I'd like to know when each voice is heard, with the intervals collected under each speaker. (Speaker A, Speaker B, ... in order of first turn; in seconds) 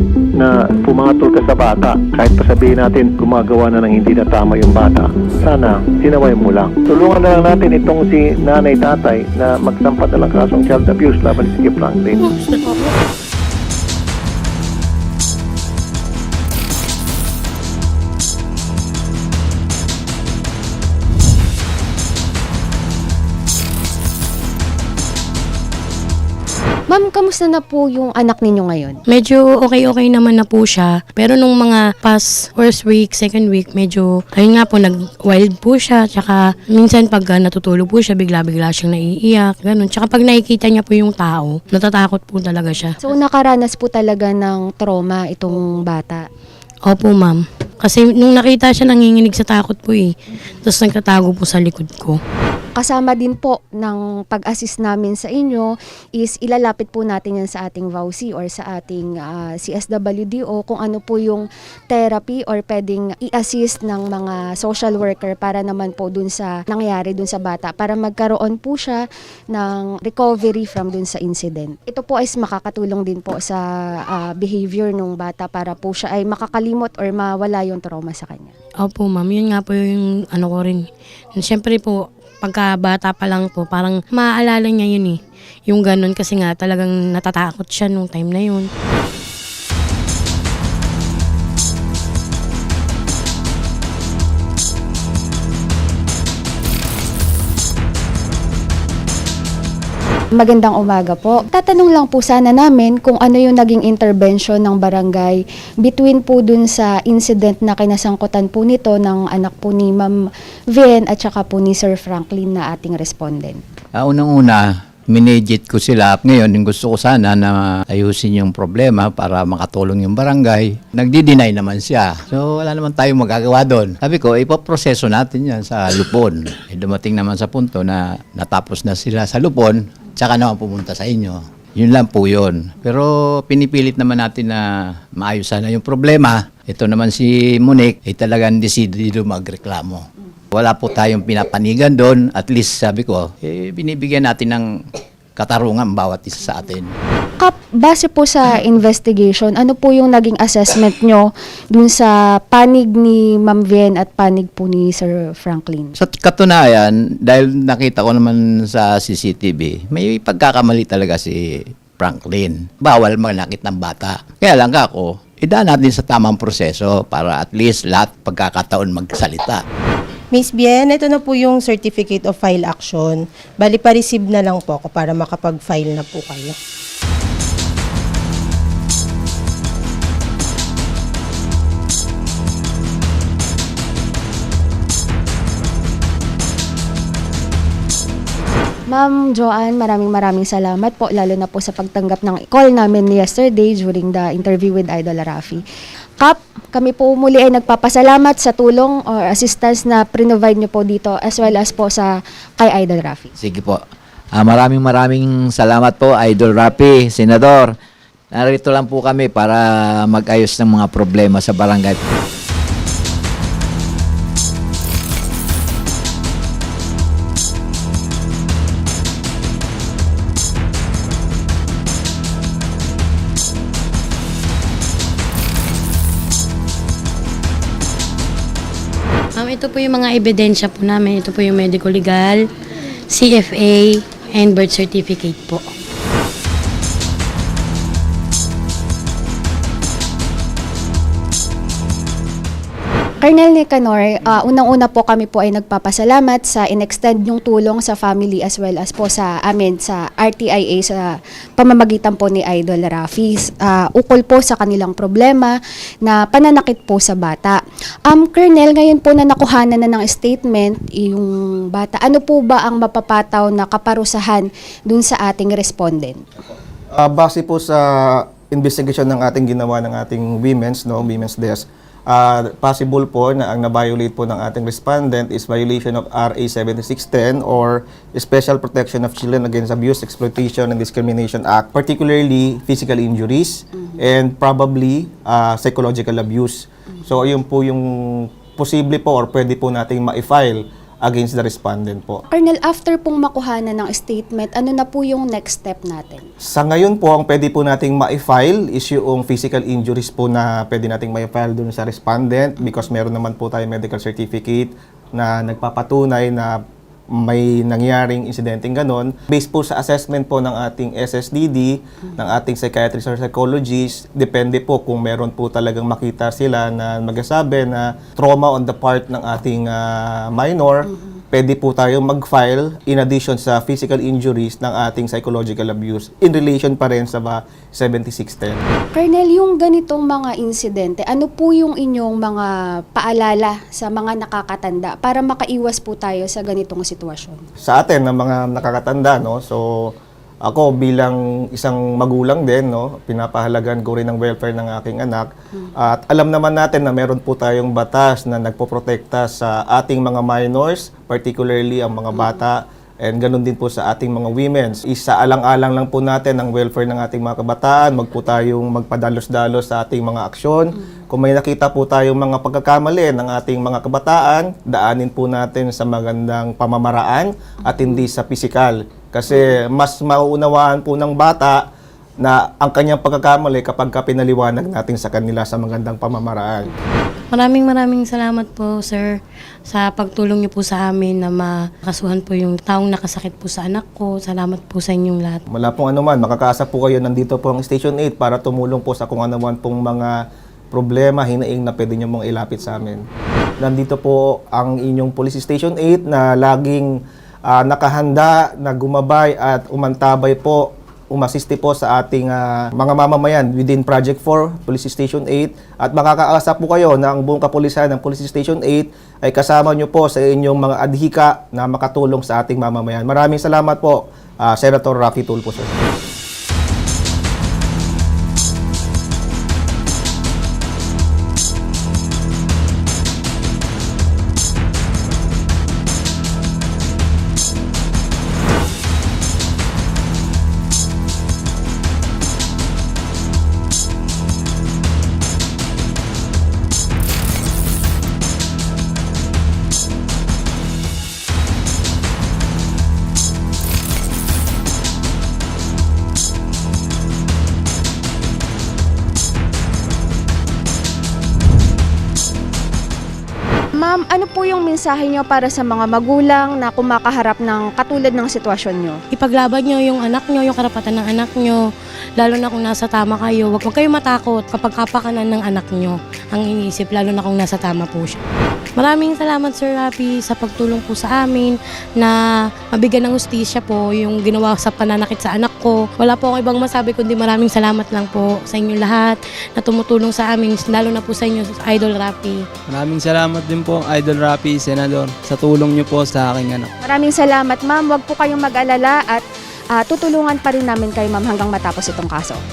Speaker A: 0.4-12.2
Speaker B: 12.2-12.9, 29.1-43.0, 46.9-52.2, 78.8-80.8, 81.4-88.7, 229.3-232.4, 233.1-235.6, 377.3-379.2, 379.7-385.4, 459.1-461.6, 462.2-468.2, 468.8-472.2, 472.7-482.4
Speaker C: 26.9-29.0, 43.0-46.3, 52.8-78.5, 100.4-110.1, 110.7-113.6, 147.4-155.9, 188.9-195.6, 196.2-203.3, 243.2-266.2, 292.3-296.2, 328.9-337.4, 453.8-459.0, 486.8-492.4
Speaker D: 114.0-134.6, 135.2-144.6, 145.4-146.9, 156.0-169.6
Speaker E: 170.3-176.5
Speaker F: 203.4-203.8, 204.3-207.8, 208.3-212.0
Speaker G: 266.9-292.2, 296.4-306.6, 307.1-328.6, 337.6-339.9, 340.4-371.7, 372.2-376.7, 385.5-390.2, 390.7-393.1, 393.6-415.8
Speaker H: 482.7-486.7